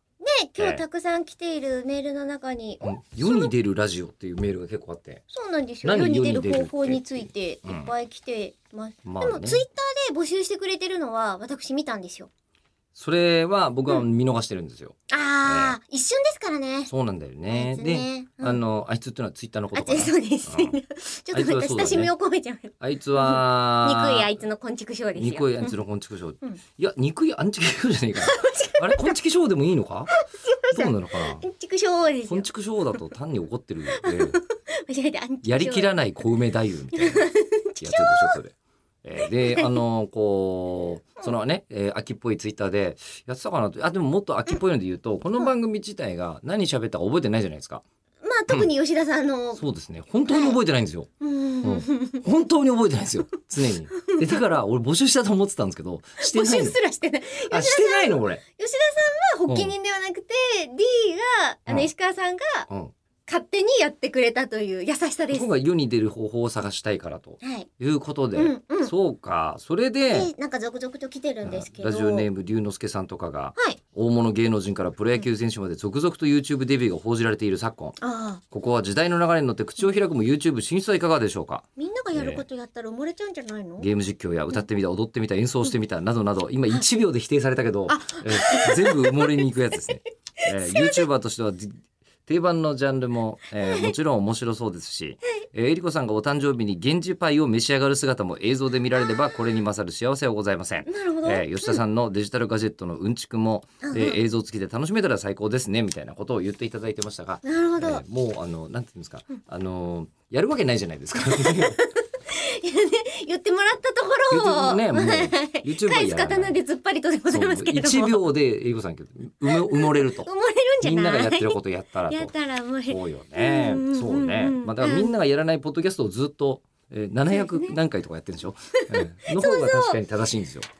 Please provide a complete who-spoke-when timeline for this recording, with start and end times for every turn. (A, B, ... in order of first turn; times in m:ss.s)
0:00.2-0:03.5 A
0:00.6-0:00.8 B
0:02.8-0:05.2 B
0:05.3-0:12.3 A
0:05.8-0:07.9 B
0:09.0-0:09.6 B
0:12.9-0:15.7 B
0:15.1-0:16.9 A
0:16.9-0:20.8 B
0:17.5-0:18.6 A
0:19.7-0:25.7 A
0:21.3-0:22.1 B
0:22.8-0:24.4 B
0:25.1-0:30.1 B
0:28.2-0:29.1 A
0:30.1-0:32.5 A
0:30.7-0:31.4 B
0:32.3-0:34.4 B
0:33.9-0:35.9 A
0:35.4-0:37.2 B
0:36.9-0:38.4 A
0:37.8-0:47.8 B
0:39.2-0:39.8 A
0:48.2-0:49.6 A
0:49.5-0:51.1 B
0:50.3-0:50.6 A
0:51.2-0:52.2 A
0:51.6-0:56.8 B
0:53.9-0:54.4 A
0:56.2-1:02.7 A
0:57.4-0:58.4 B
0:59.5-0:59.7 B
1:03.3-1:05.5 A
1:05.3-1:10.3 B
1:07.4-1:07.7 A
1:08.3-1:08.9 A
1:10.1-1:12.3 A
1:11.4-1:18.0 B
1:18.0-1:18.4 A
1:18.5-1:22.4 B
1:21.8-1:23.9 A
1:23.8-1:51.8 B
1:27.9-1:29.8 A
1:30.4-1:31.0 A
1:33.6-1:33.9 A
1:40.8-1:41.8 A
1:43.8-1:44.2 A
1:47.4-1:48.0 A
1:51.2-1:58.3 A
1:54.3-1:56.6 B
1:57.3-2:00.3 B
1:59.4-2:05.1 A
2:00.8-2:02.3 B
2:02.8-2:10.7 B
2:07.3-2:07.8 A
2:08.8-2:10.0 A